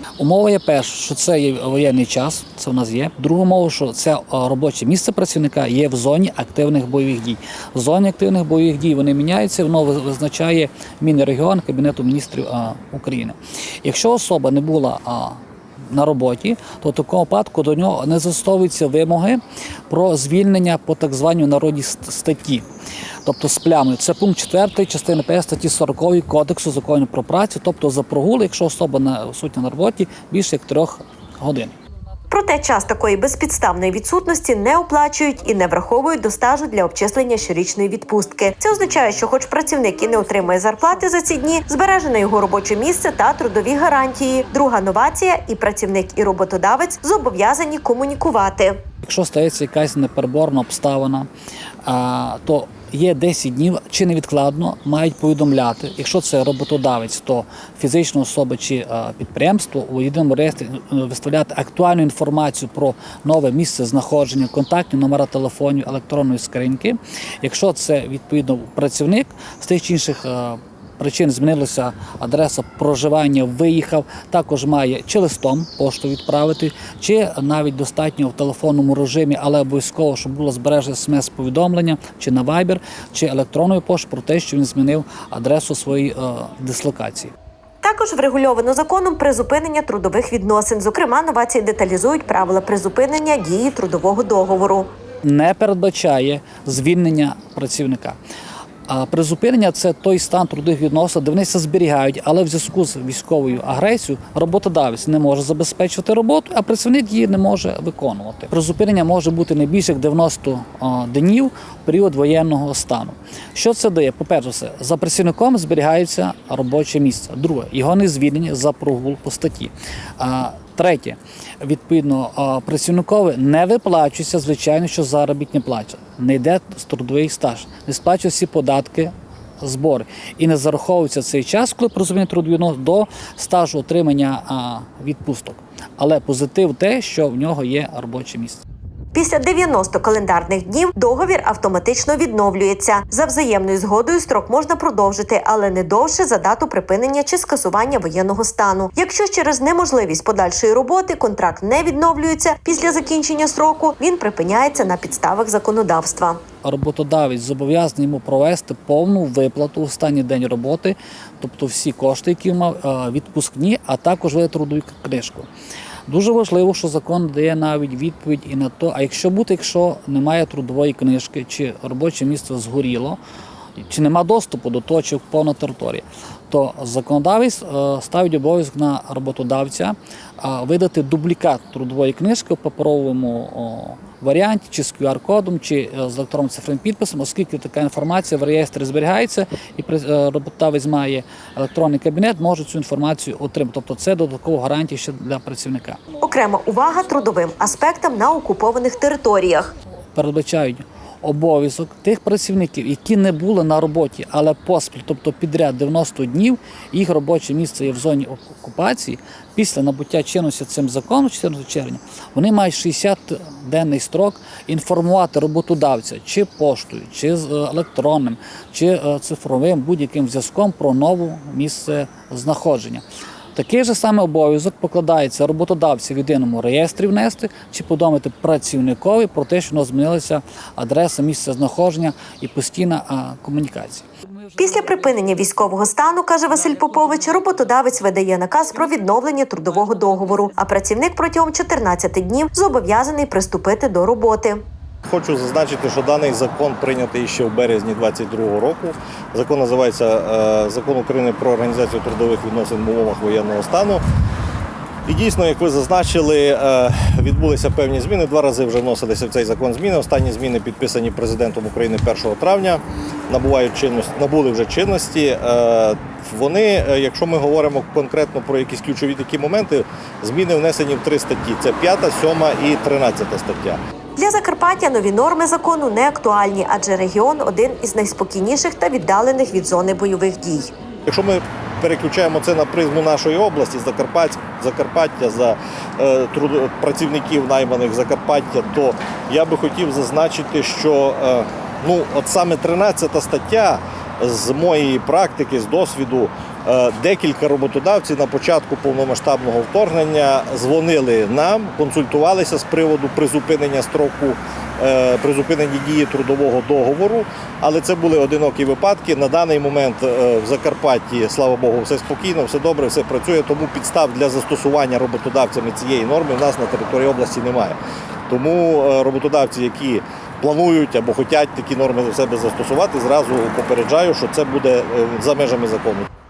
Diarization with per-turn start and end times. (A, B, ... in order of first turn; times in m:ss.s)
0:00.2-0:22.6 A
0:23.2-0:31.7 A
0:32.3-0:48.8 B
0:49.0-0:51.3 A
0:51.8-1:27.3 A
1:27.8-1:34.9 B
1:35.2-1:38.2 A
1:38.9-2:18.6 A
2:19.1-2:36.4 B
2:36.6-2:45.5 A
2:46.1-2:53.2 A
2:53.8-3:16.0 A
3:16.2-3:19.7 B
3:20.1-3:43.0 A
3:43.5-3:54.1 A
3:54.6-4:04.6 B
4:05.1-4:14.0 C
4:15.1-4:33.8 C
4:34.2-4:40.7 B
4:41.1-5:17.8 C
5:18.3-5:26.1 C